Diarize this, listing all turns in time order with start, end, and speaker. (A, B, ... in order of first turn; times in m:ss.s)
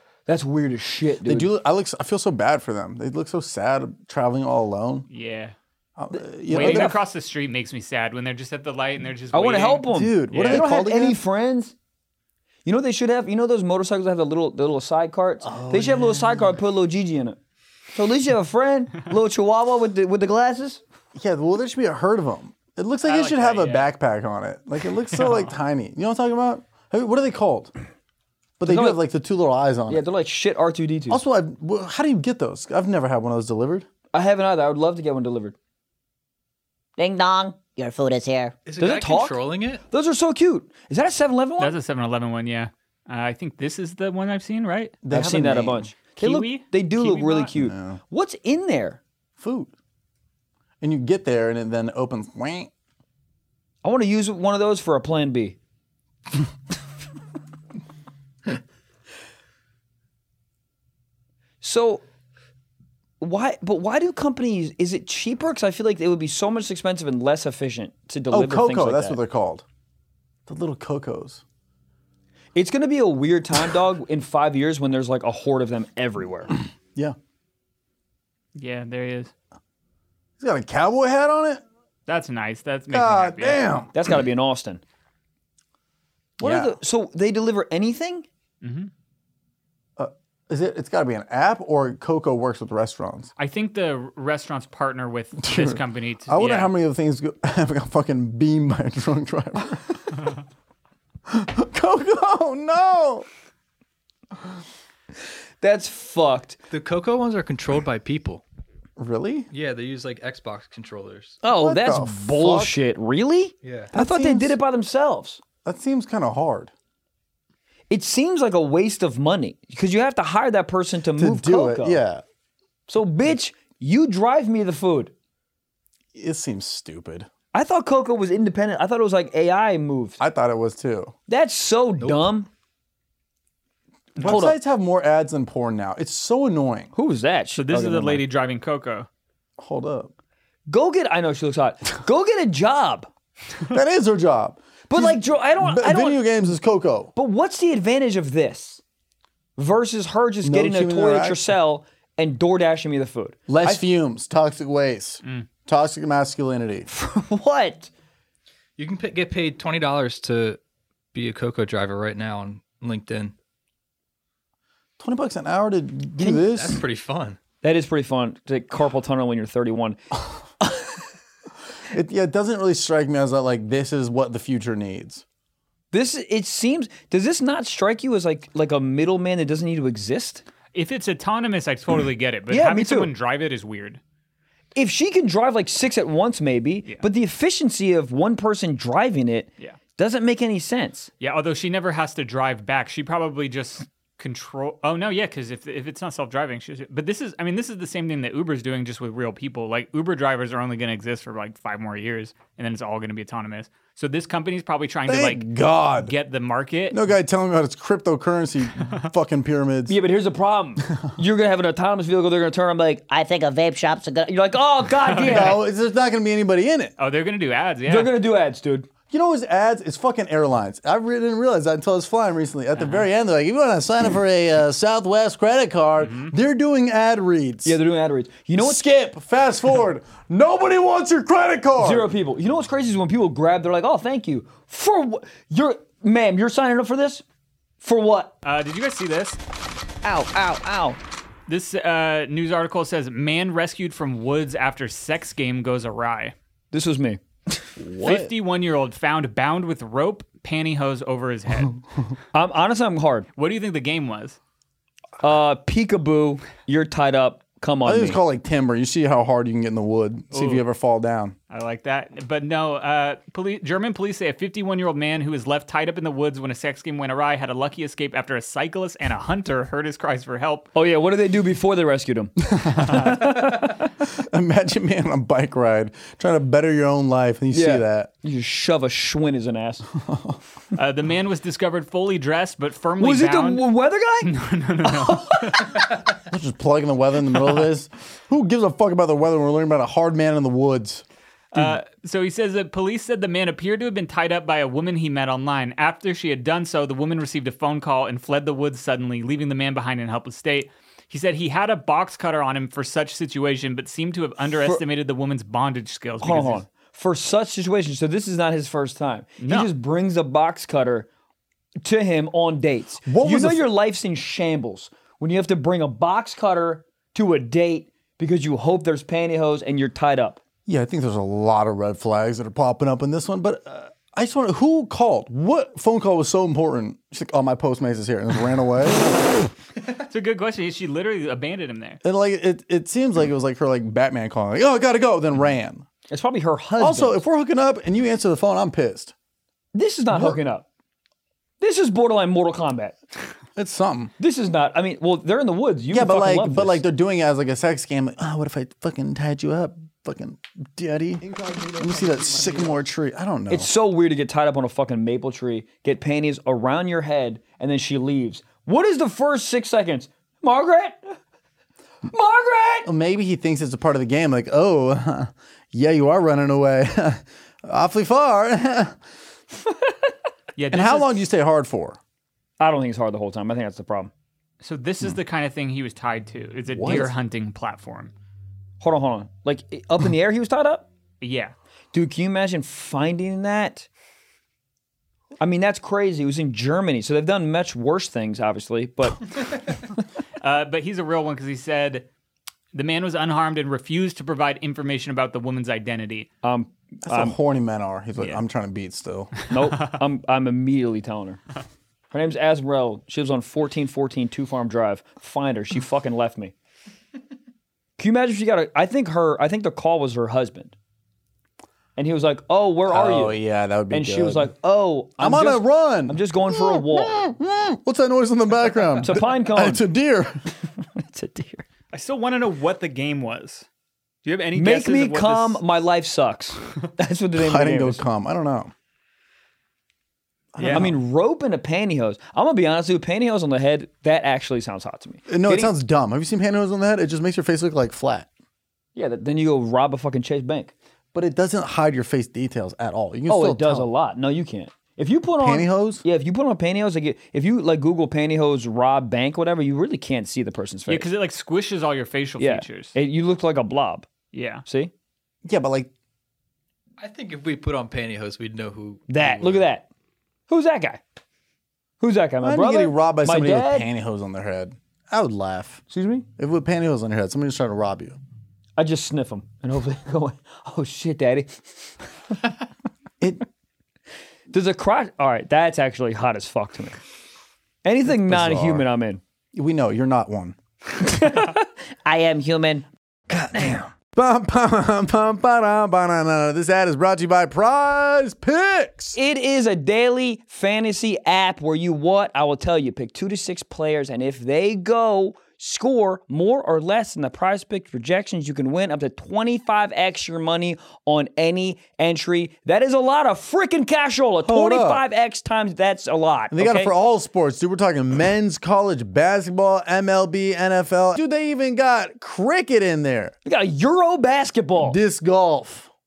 0:00.3-0:01.5 A
0:01.2-0:05.0 B
0:05.1-0:05.5 C
0:06.0-0:07.0 B
0:06.5-0:07.0 A
0:06.5-0:10.7 C
0:09.3-0:11.7 A
0:09.9-0:11.2 B
0:12.6-0:17.4 A
0:15.6-0:16.1 B
0:17.9-0:20.8 A
0:21.1-0:27.7 B
0:23.0-0:23.9 C
0:25.1-0:25.4 C
0:28.6-0:30.0 B
0:28.6-0:29.0 A
0:29.9-0:31.2 A
0:31.1-0:33.9 B
0:34.1-0:35.6 A
0:37.0-0:37.8 A
0:37.0-0:38.5 D
0:38.5-0:41.7 A
0:38.6-0:39.8 E
0:41.6-0:45.0 C
0:45.0-0:45.9 B
0:45.1-0:49.0 A
0:46.2-0:47.5 C
0:47.5-0:48.0 B
0:49.4-0:49.7 B
0:50.8-0:52.7 B
0:53.8-0:55.6 A
1:01.6-1:02.0 A
1:03.2-1:09.2 A
1:08.3-1:09.6 B
1:10.5-1:11.4 B
1:12.5-1:16.5 A
1:18.5-1:19.3 C
1:20.4-1:21.6 B
1:22.1-1:23.6 C
1:22.9-1:23.9 B
1:23.9-1:24.8 A
1:26.4-1:26.7 B
1:26.4-1:28.2 A
1:28.6-1:28.9 C
1:30.0-1:33.3 B
1:33.4-1:36.7 C
1:35.4-1:40.3 B
1:41.3-1:43.2 B
1:45.6-1:46.6 A
1:46.7-1:48.4 E
1:49.0-1:49.5 B
1:49.5-1:51.4 E
1:51.4-1:55.4 A
1:51.5-1:52.8 B
1:53.6-1:53.9 E
1:53.9-1:54.6 B
1:55.6-1:56.7 B
1:57.9-2:02.0 A
2:01.2-2:02.2 B
2:02.9-2:05.1 A
2:06.1-2:07.3 B
2:07.5-2:10.2 A
2:10.2-2:11.1 B
2:11.3-2:12.5 A
2:12.0-2:12.3 E
2:14.2-2:16.9 B
2:14.2-2:14.6 A
2:16.9-2:18.2 A
2:17.6-2:19.1 C
2:19.6-2:20.1 B
2:20.7-2:23.1 A
2:23.7-2:27.1 B
2:24.9-2:26.2 A
2:27.2-2:28.8 A
2:29.6-2:33.8 A
2:30.4-2:31.4 B
2:33.5-2:36.9 B
2:36.9-2:37.9 A
2:38.8-2:40.6 E
2:41.1-2:43.3 E
2:45.0-2:46.8 B
2:46.3-2:47.4 E
2:47.6-2:50.0 A
2:51.9-2:55.2 B
2:55.9-3:00.4 A
3:00.7-3:04.0 C
3:02.5-3:03.1 A
3:04.7-3:11.1 A
3:11.2-3:27.0 C
3:25.1-3:26.1 B
3:26.9-3:30.0 B
3:28.8-3:29.1 C
3:29.9-3:33.4 A
3:33.1-3:34.3 D
3:34.1-3:35.6 A
3:35.0-3:35.6 C
3:35.2-3:36.9 B
3:37.0-3:38.1 C
3:37.9-3:38.9 A
3:39.1-3:47.8 B
3:42.8-3:43.1 C
3:46.0-3:46.3 C
3:47.6-3:48.8 A
3:48.6-3:52.1 B
3:51.8-3:57.2 A
3:57.8-3:58.3 A
3:58.4-3:59.4 C
4:00.0-4:01.0 A
4:01.5-4:06.3 C
4:06.7-4:07.7 A
4:07.8-4:08.3 B
4:08.0-4:11.8 C
4:12.3-4:13.3 A
4:13.4-4:14.4 C
4:15.2-4:18.2 A
4:17.8-4:21.3 B
4:20.3-4:20.6 C
4:21.5-4:30.7 C
4:30.7-4:33.9 A
4:32.4-4:38.1 B
4:32.8-4:33.3 C
4:37.5-4:39.9 A
4:39.9-4:40.4 B
4:40.7-4:43.6 C
4:43.0-4:44.3 A
4:44.2-4:45.9 C
4:44.8-4:45.7 A
4:46.3-4:51.0 B
4:51.5-5:06.6 C
5:06.2-5:11.1 A
5:09.4-5:09.7 C
5:11.8-5:20.4 A
5:13.0-5:13.6 B
5:20.6-5:29.3 B
5:29.8-5:32.0 C
5:32.0-5:35.8 B
5:36.1-5:37.2 A
5:36.8-5:39.1 B
5:39.7-5:40.6 A
5:40.1-5:40.4 B
5:41.6-5:43.0 A
5:43.6-5:44.1 B
5:44.2-5:46.8 A
5:45.9-5:53.7 B
5:51.2-5:52.8 A
5:53.5-6:01.2 A
6:02.1-6:02.9 A
6:02.8-6:09.0 B
6:10.6-6:11.2 C
6:10.7-6:12.0 B
6:12.6-6:14.1 A
6:14.6-6:18.1 C
6:16.8-6:17.1 A
6:18.8-6:20.8 A
6:21.2-6:21.5 C
6:21.9-6:23.9 A
6:25.4-6:29.2 A
6:30.4-6:32.1 C
6:32.7-6:36.3 C
6:36.4-6:37.4 A
6:37.0-6:39.3 B
6:39.5-6:41.4 A
6:42.1-6:46.5 A
6:48.0-6:50.7 A
6:52.0-6:53.4 A
6:52.9-6:54.5 B
6:53.9-6:57.2 A
6:55.2-7:00.3 B
6:59.0-6:59.8 A
7:00.8-7:01.6 A
7:01.9-7:03.6 C
7:04.2-7:05.6 C
7:04.5-7:08.0 A
7:07.4-7:08.7 B
7:10.5-7:11.0 B
7:10.6-7:10.9 C
7:10.7-7:15.7 A
7:15.3-7:18.3 B
7:18.9-7:20.7 A
7:21.1-7:23.9 B
7:23.3-7:31.1 A
7:25.4-7:26.0 B
7:30.9-7:32.9 C
7:32.4-7:34.1 A
7:34.3-7:34.6 C
7:34.6-7:34.9 A
7:35.4-7:35.9 B
7:37.0-7:39.7 E
7:39.1-7:39.9 A
7:40.5-7:41.0 A
7:42.0-7:43.9 A
7:42.4-7:45.8 B
7:45.9-7:46.2 A
7:46.4-7:48.2 B
7:48.8-7:51.6 A
7:54.5-7:57.0 A
7:57.8-7:59.2 A
7:58.1-7:58.8 B
7:59.5-8:00.6 B
8:01.0-8:03.9 A
8:04.1-8:09.2 B
8:09.1-8:26.9 A
8:24.4-8:25.0 B
8:26.5-8:33.3 B
8:33.4-8:35.0 A
8:34.8-8:35.9 B